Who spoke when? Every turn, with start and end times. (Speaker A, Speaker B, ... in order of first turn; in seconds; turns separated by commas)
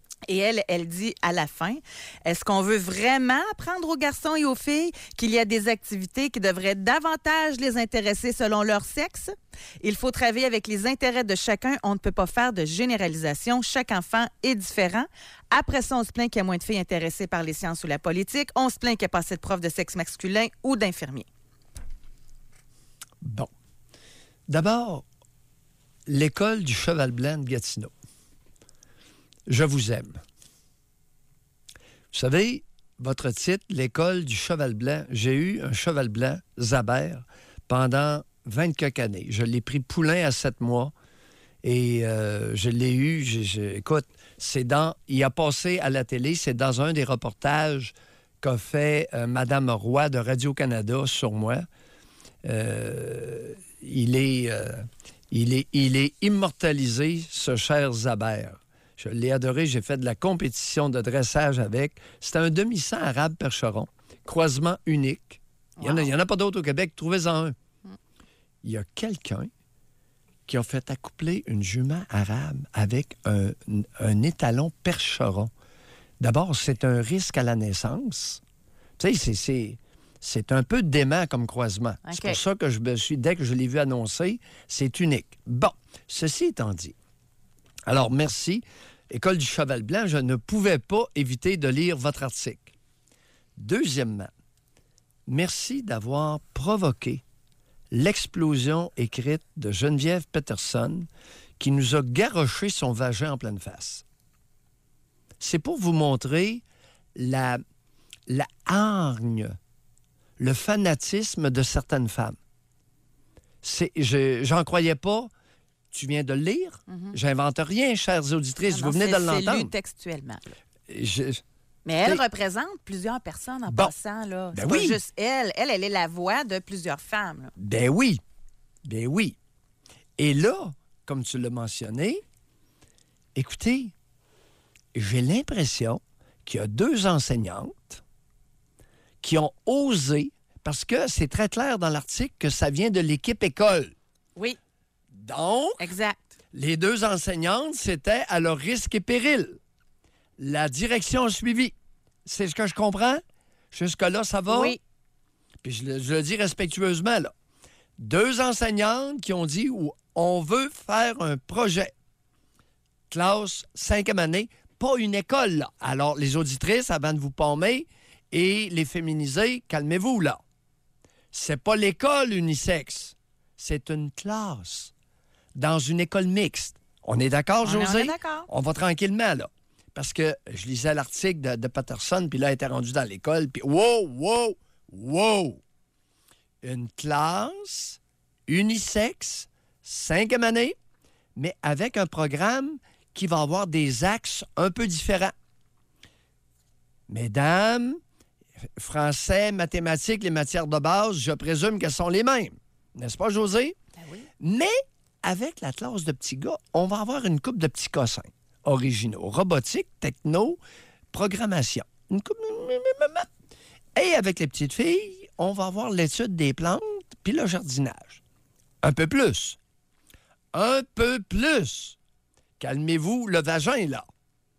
Speaker A: 0.3-21.3, Speaker B: 23.2-23.5, Speaker B: 24.5-25.1, Speaker B: 26.1-27.9, Speaker B: 29.5-30.2, Speaker B: 32.1-40.9, Speaker B: 41.6-51.7, Speaker B: 52.4-67.6, Speaker A: 65.8-66.1, Speaker B: 68.6-69.5, Speaker B: 70.5-75.5, Speaker B: 76.2-78.4, Speaker B: 79.0-87.0, Speaker A: 82.0-82.4, Speaker B: 87.9-92.7, Speaker B: 93.6-94.3, Speaker B: 95.3-97.2, Speaker B: 97.9-104.0, Speaker B: 105.4-106.6, Speaker B: 107.2-107.6, Speaker B: 108.3-109.6, Speaker B: 110.4-112.4, Speaker B: 113.6-115.3, Speaker B: 115.9-119.7, Speaker A: 116.9-117.2, Speaker A: 118.7-120.5, Speaker B: 120.9-121.4, Speaker A: 121.8-127.5, Speaker B: 123.7-123.9, Speaker B: 124.5-125.0, Speaker B: 127.6-128.2, Speaker B: 128.8-129.4, Speaker B: 130.2-132.2, Speaker B: 133.3-133.9, Speaker B: 134.9-138.0, Speaker B: 139.2-143.9, Speaker B: 145.1-145.9, Speaker A: 145.8-146.3, Speaker B: 146.5-149.6, Speaker B: 150.4-151.7, Speaker B: 152.2-154.8, Speaker A: 154.5-154.8, Speaker B: 155.6-157.3, Speaker B: 158.0-161.9, Speaker B: 163.1-170.4, Speaker B: 171.3-174.9, Speaker B: 175.6-185.6, Speaker A: 177.6-178.5, Speaker B: 186.6-190.8, Speaker B: 191.4-195.3, Speaker B: 197.1-198.0, Speaker B: 198.8-203.8, Speaker A: 204.0-204.3, Speaker B: 204.4-210.6, Speaker B: 211.1-213.3, Speaker B: 213.9-218.2, Speaker B: 218.8-219.6, Speaker B: 220.5-222.0, Speaker B: 222.6-224.1